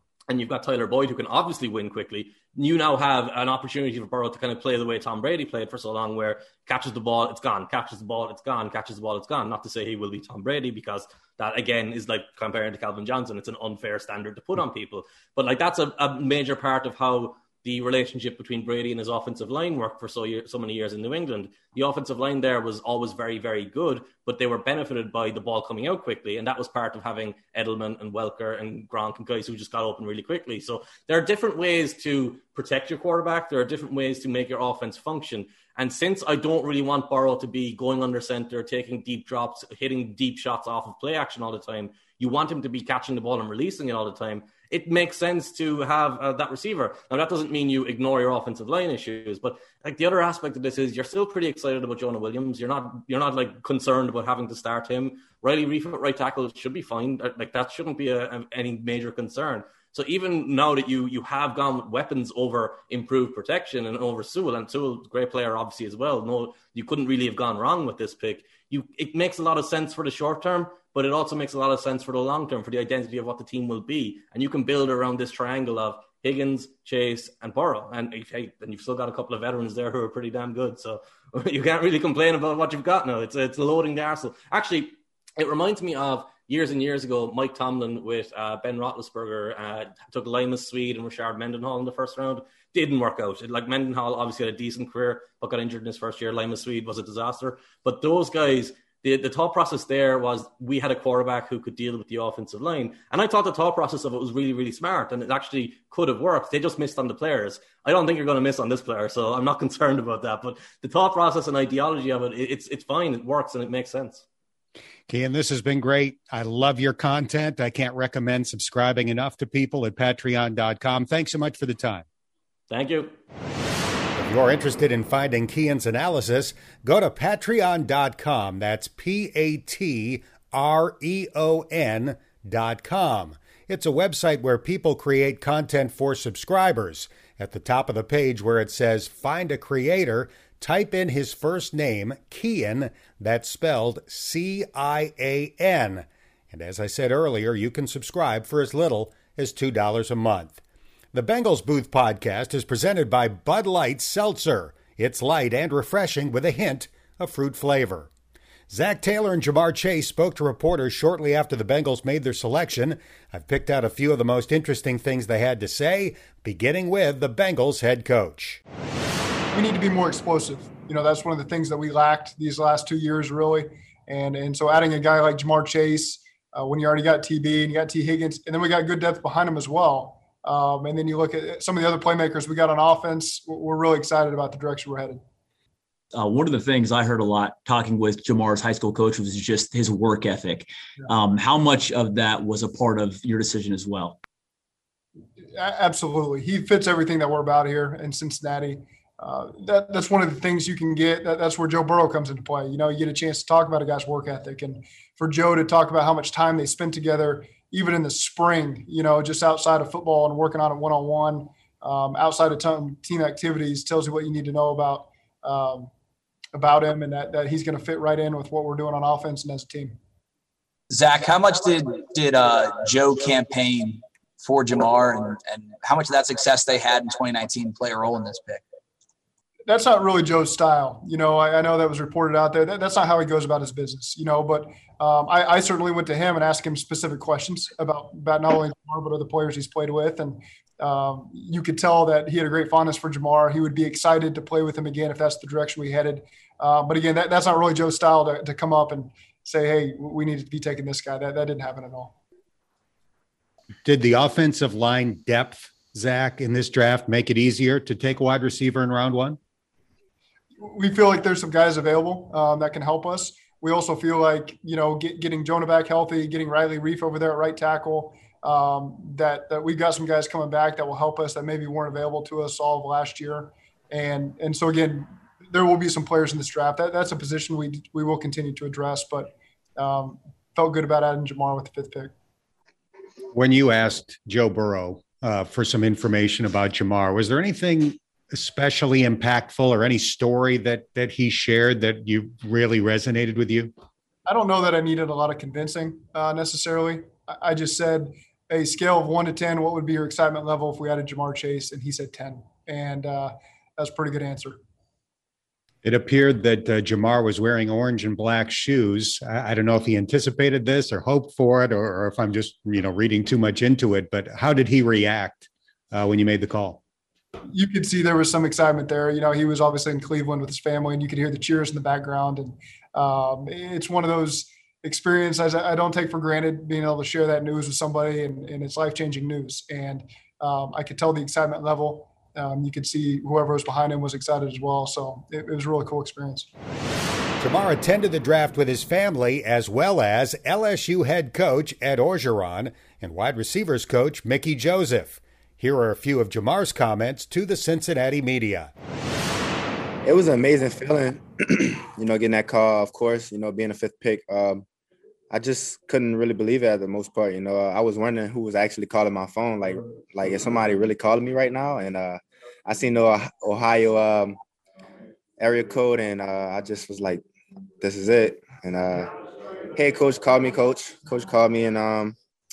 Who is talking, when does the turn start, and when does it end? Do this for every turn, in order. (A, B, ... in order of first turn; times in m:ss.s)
0:00.3-1:54.2 A
1:55.1-2:02.0 B
2:02.7-2:03.1 A
2:04.2-2:30.6 B
2:31.1-2:38.1 B
2:38.7-2:48.6 B
2:49.5-3:05.2 C
3:06.1-3:14.2 D
3:15.5-3:35.9 C
3:36.5-3:40.0 C
3:40.9-3:48.6 E
3:49.7-4:12.1 C
4:13.8-4:19.4 B
4:20.6-4:42.1 C
4:43.3-4:53.7 B
4:54.2-5:04.6 C
5:05.8-5:16.8 B
5:17.5-5:36.5 C
5:37.4-5:48.7 B
5:50.0-5:54.6 F
5:55.3-6:04.4 F
6:05.4-6:07.2 F
6:07.8-6:09.1 F
6:09.7-6:12.2 F